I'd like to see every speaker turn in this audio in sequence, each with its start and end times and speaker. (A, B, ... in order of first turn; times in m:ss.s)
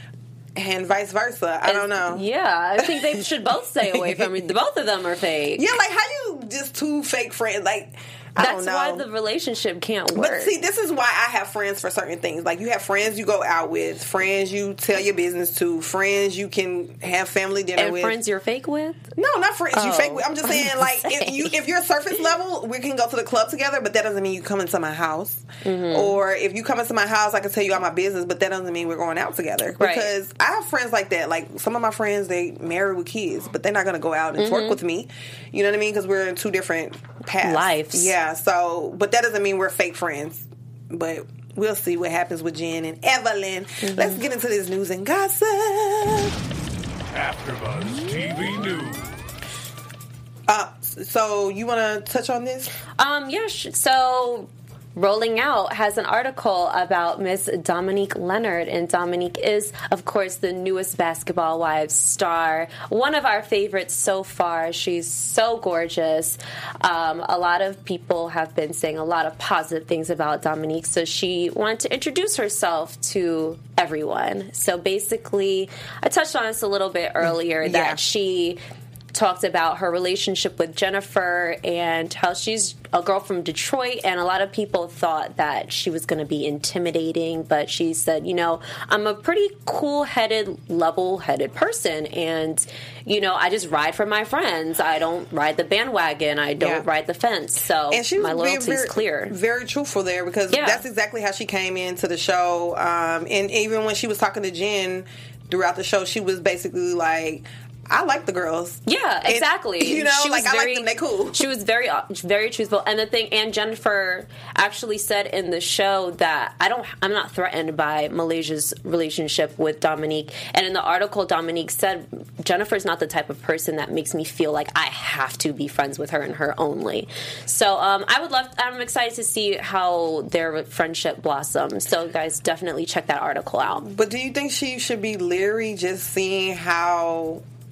0:00.6-0:02.3 A
0:01.6-0:05.6 B
0:02.8-0:03.2 A
0:03.9-0:04.3 A
0:05.6-0:09.0 A
0:08.4-0:10.5 B
0:10.1-0:18.2 A
0:17.8-0:19.0 B
0:19.1-0:46.3 A
0:19.7-0:21.5 B
0:25.6-0:26.2 B
0:29.8-0:30.1 B
0:34.4-0:34.8 B
0:37.4-0:38.1 B
0:43.8-0:44.2 B
0:47.1-0:49.2 C
0:50.5-0:52.7 A
0:53.0-1:18.6 B
1:17.2-1:18.0 A
1:19.1-1:39.3 B
1:36.6-1:36.8 A
1:37.9-1:51.4 A
1:40.5-1:40.8 B
1:48.8-2:13.8 B
2:13.8-2:17.4 A